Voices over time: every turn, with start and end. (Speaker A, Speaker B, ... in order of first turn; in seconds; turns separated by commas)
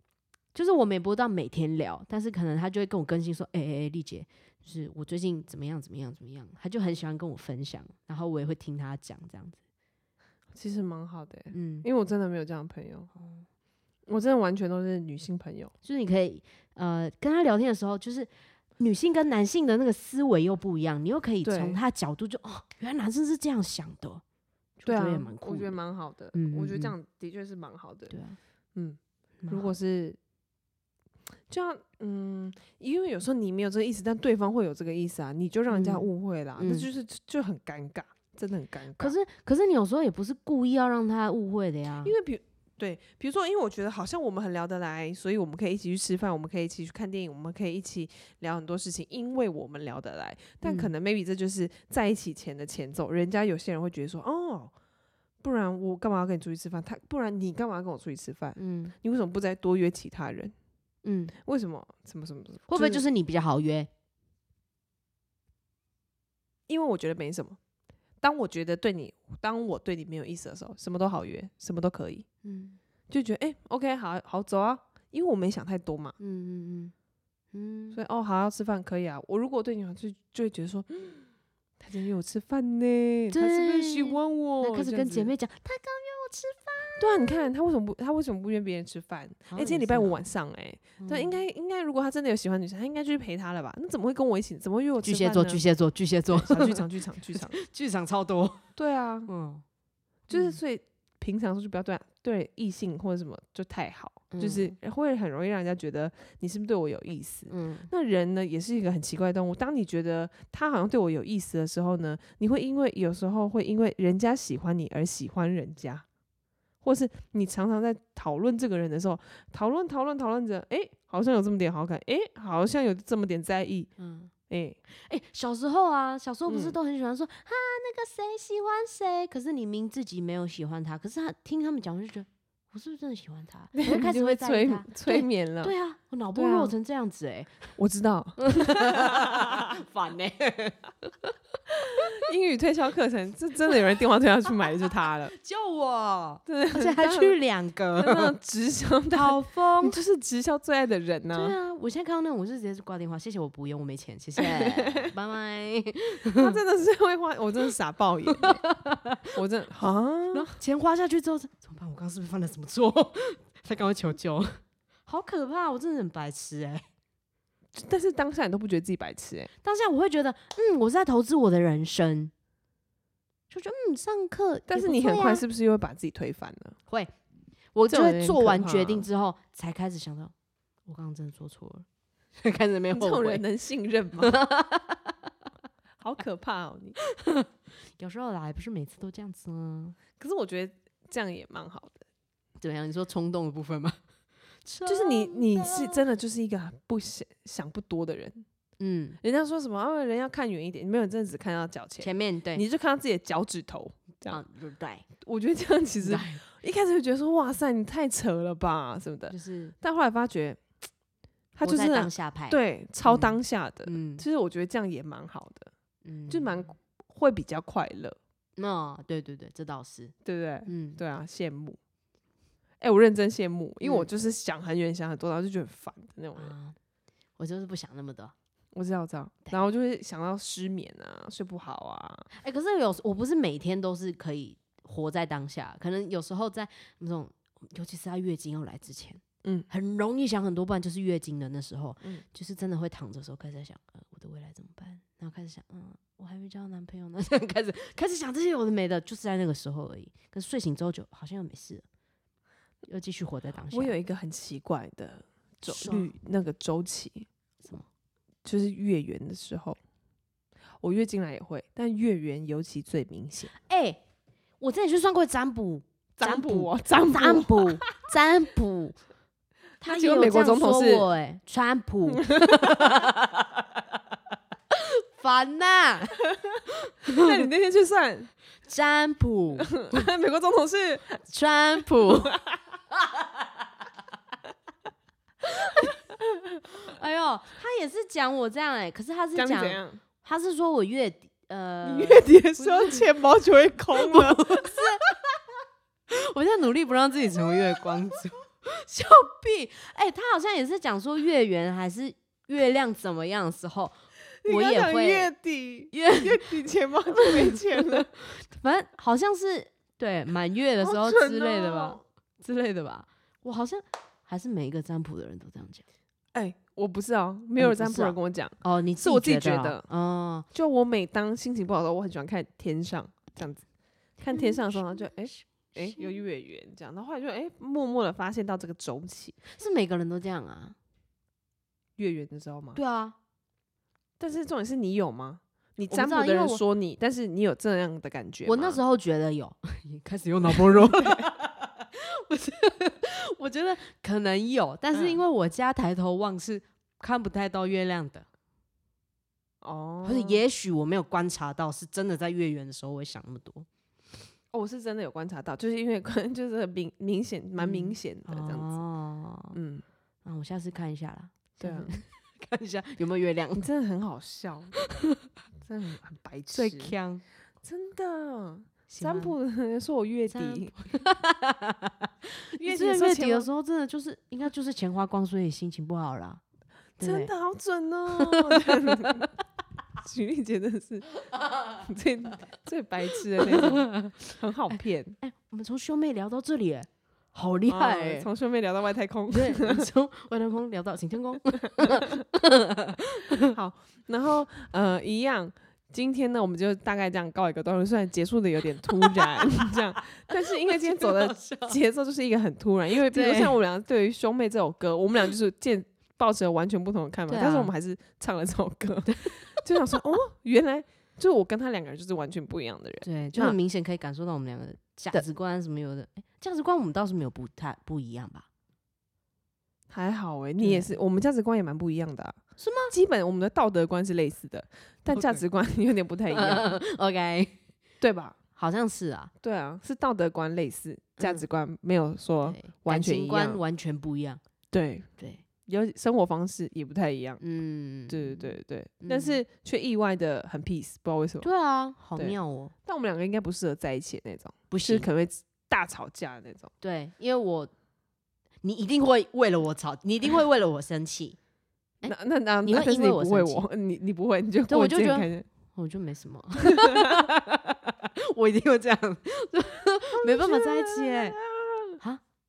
Speaker A: 0.5-9.6, Speaker B: 10.5-13.1, Speaker A: 11.5-11.9, Speaker A: 13.2-13.5, Speaker B: 14.1-15.7, Speaker A: 15.8-24.2, Speaker B: 21.4-21.8, Speaker A: 24.8-25.8, Speaker B: 24.9-28.2, Speaker A: 26.3-26.9, Speaker A: 28.1-28.4, Speaker B: 28.8-30.2, Speaker A: 29.4-29.7, Speaker B: 31.5-39.2, Speaker A: 35.7-36.9, Speaker A: 39.0-42.1, Speaker B: 42.0-54.7, Speaker A: 50.6-50.9, Speaker B: 55.4-60.5, Speaker A: 58.6-59.0, Speaker A: 61.0-61.4, Speaker B: 61.4-63.0, Speaker A: 62.7-63.9, Speaker B: 66.7-67.6, Speaker B: 68.2-72.3, Speaker A: 72.4-72.8, Speaker B: 73.1-76.2, Speaker A: 76.2-76.9, Speaker A: 77.5-78.0, Speaker B: 77.9-81.3, Speaker B: 81.8-85.3, Speaker A: 83.3-87.5, Speaker B: 87.0-95.6, Speaker A: 89.5-90.2, Speaker A: 91.0-91.4, Speaker A: 95.0-96.8, Speaker B: 96.3-97.6, Speaker A: 97.3-98.6, Speaker B: 98.8-99.3, Speaker A: 99.3-99.6, Speaker B: 100.3-116.0, Speaker A: 100.3-100.6, Speaker A: 104.3-104.8, Speaker A: 107.5-107.9, Speaker B: 116.8-123.9, Speaker A: 124.0-124.3, Speaker B: 124.5-124.8, Speaker A: 124.9-137.8, Speaker B: 126.5-126.8, Speaker B: 133.8-135.7, Speaker B: 136.3-136.7, Speaker B: 137.8-139.7, Speaker A: 138.4-141.1, Speaker B: 141.7-145.3, Speaker A: 145.3-148.3, Speaker B: 146.5-147.4, Speaker B: 148.0-151.6, Speaker A: 149.1-150.0, Speaker A: 151.3-156.6, Speaker B: 154.4-155.1, Speaker B: 156.3-158.6, Speaker A: 158.3-159.3, Speaker B: 159.3-160.5, Speaker A: 160.3-166.8, Speaker B: 167.7-169.5, Speaker A: 169.6-172.3, Speaker A: 173.5-175.4, Speaker B: 174.7-176.8, Speaker A: 177.7-180.3, Speaker B: 177.9-179.1, Speaker A: 180.9-181.9, Speaker A: 182.4-183.4, Speaker B: 182.9-184.3, Speaker A: 184.2-185.3, Speaker B: 186.0-187.0, Speaker A: 187.2-190.0, Speaker B: 190.2-192.1, Speaker A: 192.6-194.0, Speaker A: 194.6-196.1, Speaker B: 194.9-198.4, Speaker A: 198.8-199.2, Speaker B: 199.2-204.4, Speaker A: 202.0-202.6, Speaker A: 204.3-205.1, Speaker B: 205.2-210.6, Speaker A: 206.0-206.4, Speaker A: 209.3-209.8, Speaker B: 211.6-215.7, Speaker A: 211.6-214.2, Speaker A: 216.0-216.7, Speaker B: 216.3-218.2, Speaker A: 218.6-220.1, Speaker B: 220.2-221.8, Speaker A: 220.7-221.0, Speaker B: 222.8-226.5, Speaker A: 223.8-224.1, Speaker A: 226.3-226.8, Speaker A: 227.4-228.3, Speaker B: 228.7-232.3, Speaker A: 232.3-251.8, Speaker A: 252.9-253.9, Speaker B: 253.7-257.3, Speaker A: 255.7-256.1, Speaker B: 258.4-259.8, Speaker B: 260.8-263.5, Speaker A: 263.5-264.0, Speaker A: 264.6-269.0, Speaker B: 266.2-267.9, Speaker A: 269.8-273.6, Speaker B: 269.8-271.1, Speaker B: 272.1-273.1, Speaker A: 274.7-277.3, Speaker B: 277.2-278.3, Speaker A: 278.7-279.8, Speaker B: 279.7-281.2, Speaker A: 281.3-282.4, Speaker B: 282.2-282.5, Speaker A: 283.1-283.4, Speaker A: 285.4-286.0, Speaker A: 286.6-293.1, Speaker B: 289.4-290.0, Speaker B: 291.8-295.1, Speaker A: 294.0-295.1, Speaker A: 296.1-305.3, Speaker B: 304.4-308.1, Speaker A: 305.9-306.6, Speaker A: 307.1-315.9, Speaker B: 310.8-312.0, Speaker B: 316.3-319.9, Speaker A: 317.6-320.5, Speaker B: 320.5-323.6, Speaker B: 324.2-329.4, Speaker A: 324.2-326.2, Speaker A: 329.5-330.8, Speaker B: 332.0-332.8, Speaker A: 332.8-333.2, Speaker B: 334.2-338.8, Speaker A: 335.9-336.6, Speaker A: 338.4-348.3, Speaker B: 340.4-341.3, Speaker B: 344.9-345.2, Speaker B: 349.6-350.4, Speaker A: 350.0-353.7, Speaker B: 354.5-358.7, Speaker A: 357.6-359.6, Speaker B: 359.5-359.9, Speaker A: 360.2-363.7, Speaker B: 361.6-362.0, Speaker B: 363.6-364.8, Speaker B: 365.6-366.9, Speaker A: 366.5-367.2, Speaker B: 367.6-370.8, Speaker A: 368.9-369.4, Speaker A: 370.3-376.4, Speaker B: 372.6-373.5, Speaker A: 377.0-377.3, Speaker B: 377.0-379.3, Speaker A: 378.1-379.2, Speaker B: 380.0-385.2, Speaker A: 383.4-388.3, Speaker B: 387.7-389.9, Speaker A: 389.3-393.5, Speaker B: 391.8-392.1, Speaker B: 393.4-413.6, Speaker A: 399.1-401.8, Speaker A: 403.0-403.6, Speaker A: 407.3-407.7, Speaker A: 409.1-410.0, Speaker A: 413.0-418.5, Speaker B: 419.9-426.7, Speaker A: 420.6-420.9, Speaker A: 422.6-422.9, Speaker A: 425.1-425.4, Speaker A: 426.3-427.6, Speaker B: 428.0-428.4, Speaker A: 428.6-429.3, Speaker B: 429.4-433.6, Speaker A: 431.2-431.4, Speaker A: 432.4-434.4, Speaker B: 434.7-435.1, Speaker B: 435.6-437.4, Speaker A: 437.4-439.4, Speaker B: 438.1-441.5, Speaker A: 441.4-442.7, Speaker B: 442.2-446.7, Speaker A: 444.7-445.1, Speaker A: 446.8-447.7, Speaker A: 448.6-451.4, Speaker A: 452.0-453.6, Speaker B: 452.1-455.5, Speaker A: 454.7-461.4, Speaker B: 456.7-457.3, Speaker B: 460.2-462.0